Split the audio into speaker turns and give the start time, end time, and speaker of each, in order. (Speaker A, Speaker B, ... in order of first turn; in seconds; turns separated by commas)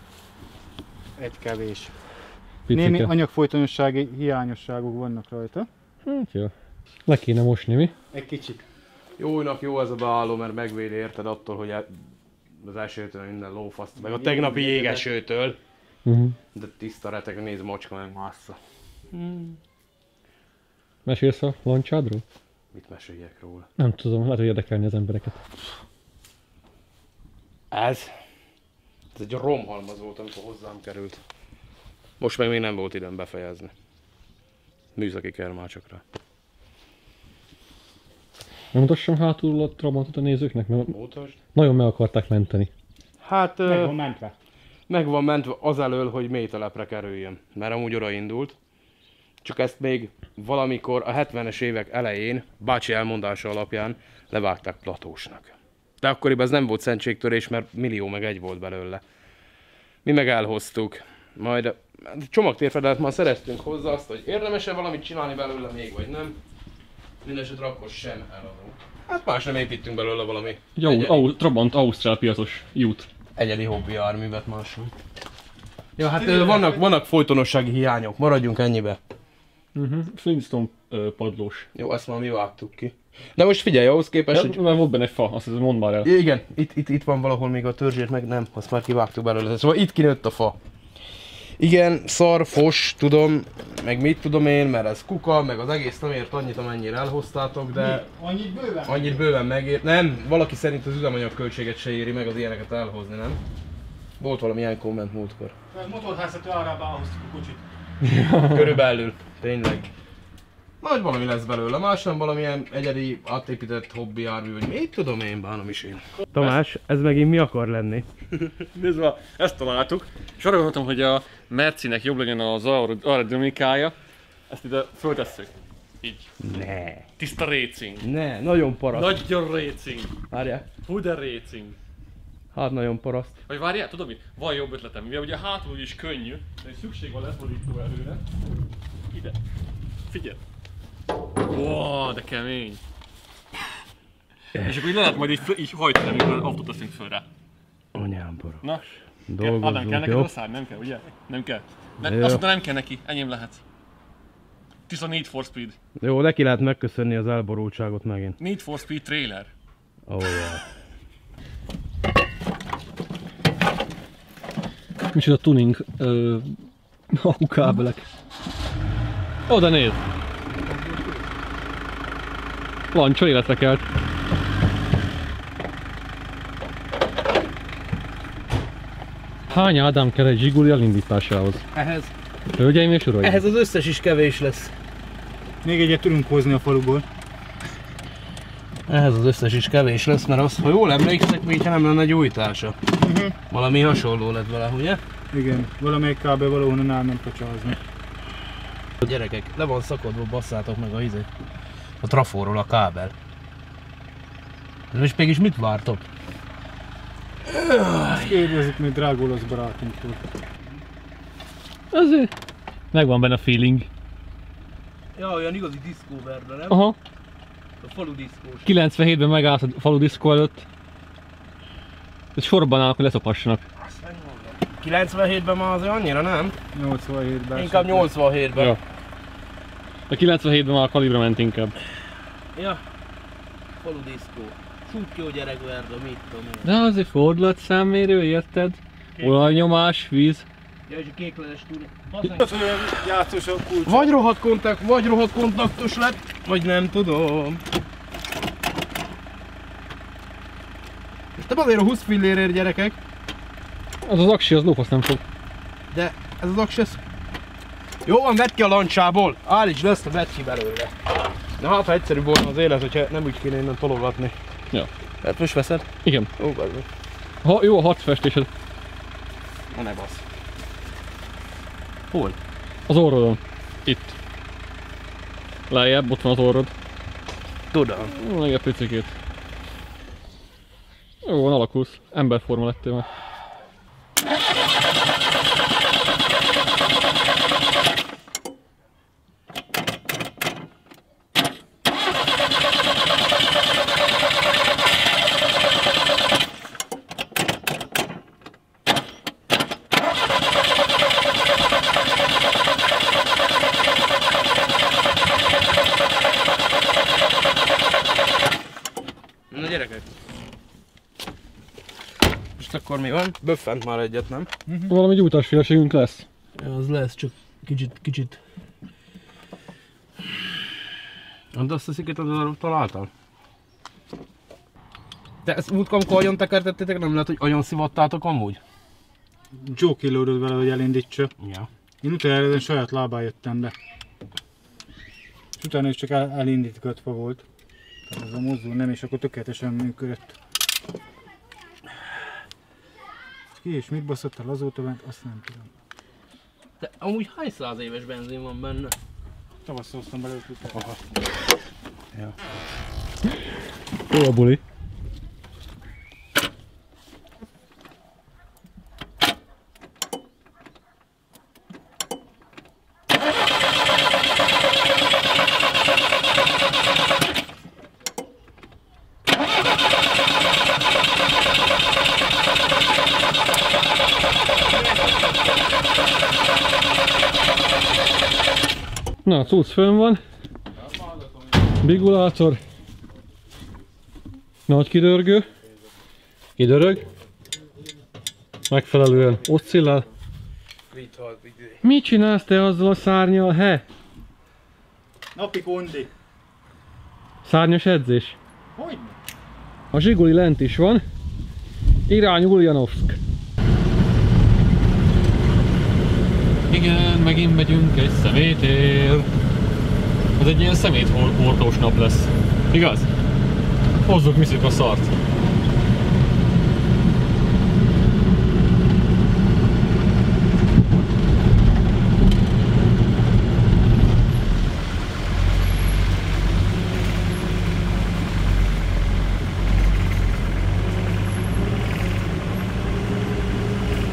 Speaker A: 1.2-1.9, Speaker B: 2.7-3.1, Speaker A: 2.7-5.7, Speaker B: 6.1-6.5, Speaker B: 7.1-7.9, Speaker A: 8.1-8.6, Speaker C: 9.2-11.9, Speaker C: 12.6-15.6, Speaker A: 14.0-15.1, Speaker B: 16.1-16.4, Speaker C: 16.5-18.6, Speaker C: 19.1-19.6, Speaker B: 21.1-22.2, Speaker C: 22.7-23.7, Speaker B: 23.8-25.4, Speaker C: 27.7-28.1, Speaker C: 29.1-31.2, Speaker C: 32.2-33.7, Speaker C: 35.0-36.0, Speaker B: 38.7-40.9, Speaker C: 40.9-41.4, Speaker B: 41.5-42.7, Speaker C: 43.2-43.9, Speaker A: 43.6-44.3, Speaker C: 44.9-48.5, Speaker C: 49.4-59.0, Speaker C: 60.0-66.4, Speaker C: 67.2-71.2, Speaker B: 70.8-73.1, Speaker C: 73.4-74.9, Speaker C: 76.0-79.0, Speaker A: 76.2-76.8, Speaker B: 79.8-81.7, Speaker C: 81.8-84.6, Speaker B: 84.3-86.1, Speaker C: 86.0-90.6, Speaker C: 91.6-98.0, Speaker A: 97.7-99.2, Speaker C: 98.9-103.4, Speaker C: 104.2-105.5, Speaker A: 105.7-107.6, Speaker B: 108.0-108.8, Speaker C: 108.5-109.9, Speaker C: 110.8-118.1, Speaker B: 118.4-124.0, Speaker B: 124.5-126.3, Speaker C: 126.4-127.1, Speaker B: 127.2-128.1, Speaker C: 128.0-129.2, Speaker B: 128.9-130.2, Speaker C: 130.3-130.7, Speaker B: 130.8-131.8, Speaker C: 132.5-133.4, Speaker B: 133.5-138.2, Speaker B: 140.1-140.4, Speaker B: 141.5-142.8, Speaker B: 144.6-147.3, Speaker C: 147.9-148.7, Speaker C: 149.3-150.3, Speaker B: 149.4-153.6, Speaker C: 152.0-152.4, Speaker B: 154.9-155.8, Speaker C: 156.0-158.4, Speaker B: 158.4-159.5, Speaker C: 160.1-160.6, Speaker B: 165.1-166.5, Speaker B: 167.1-168.1, Speaker B: 169.5-170.0, Speaker B: 172.9-173.8, Speaker B: 179.5-181.6, Speaker C: 181.7-182.1, Speaker B: 182.5-183.4, Speaker C: 183.2-184.7, Speaker A: 185.6-187.1, Speaker C: 188.9-192.8, Speaker A: 193.0-193.4, Speaker C: 193.5-195.0, Speaker A: 195.3-197.8, Speaker C: 199.0-201.3, Speaker C: 202.0-203.1, Speaker C: 204.9-206.0, Speaker C: 207.5-208.4, Speaker A: 208.1-210.2, Speaker B: 211.9-212.3, Speaker B: 212.9-213.9, Speaker C: 215.2-216.8, Speaker B: 216.7-217.0, Speaker C: 217.8-218.7, Speaker B: 218.7-220.7, Speaker B: 222.4-223.6, Speaker C: 223.8-226.6, Speaker A: 226.7-228.1, Speaker C: 227.6-228.7, Speaker B: 230.1-231.7, Speaker C: 232.6-232.8, Speaker C: 233.7-236.7, Speaker B: 236.7-240.5, Speaker C: 240.9-242.4, Speaker A: 242.3-244.1, Speaker C: 243.9-247.6, Speaker C: 251.4-253.0, Speaker B: 254.0-255.2, Speaker C: 255.9-257.0, Speaker C: 258.1-260.9, Speaker C: 261.6-264.4, Speaker C: 265.2-265.9, Speaker B: 266.0-266.3, Speaker C: 266.4-266.9, Speaker B: 267.4-268.5, Speaker C: 269.7-270.2, Speaker C: 272.1-272.4, Speaker B: 272.9-274.1, Speaker B: 275.7-276.7, Speaker C: 277.7-278.1, Speaker B: 278.1-279.1, Speaker B: 281.2-283.1, Speaker C: 309.5-310.1, Speaker C: 312.6-314.5, Speaker B: 314.9-316.2, Speaker C: 316.6-318.4, Speaker C: 321.5-323.1, Speaker C: 325.4-328.6, Speaker A: 329.6-331.3, Speaker C: 331.4-331.7, Speaker A: 332.0-333.7, Speaker A: 335.6-337.4, Speaker A: 338.1-340.4, Speaker A: 343.6-345.7, Speaker C: 346.8-348.9, Speaker A: 349.6-350.8, Speaker B: 354.1-354.6, Speaker B: 379.2-380.2, Speaker C: 380.9-381.5, Speaker B: 381.8-382.6, Speaker B: 384.7-385.5, Speaker B: 386.6-387.1, Speaker B: 388.7-390.1, Speaker C: 390.9-391.8, Speaker B: 391.8-393.8, Speaker A: 395.4-396.1, Speaker B: 397.4-398.4, Speaker A: 398.8-399.2, Speaker B: 399.9-401.0, Speaker B: 402.1-403.2, Speaker B: 406.7-409.3, Speaker B: 410.4-413.1, Speaker B: 414.1-415.1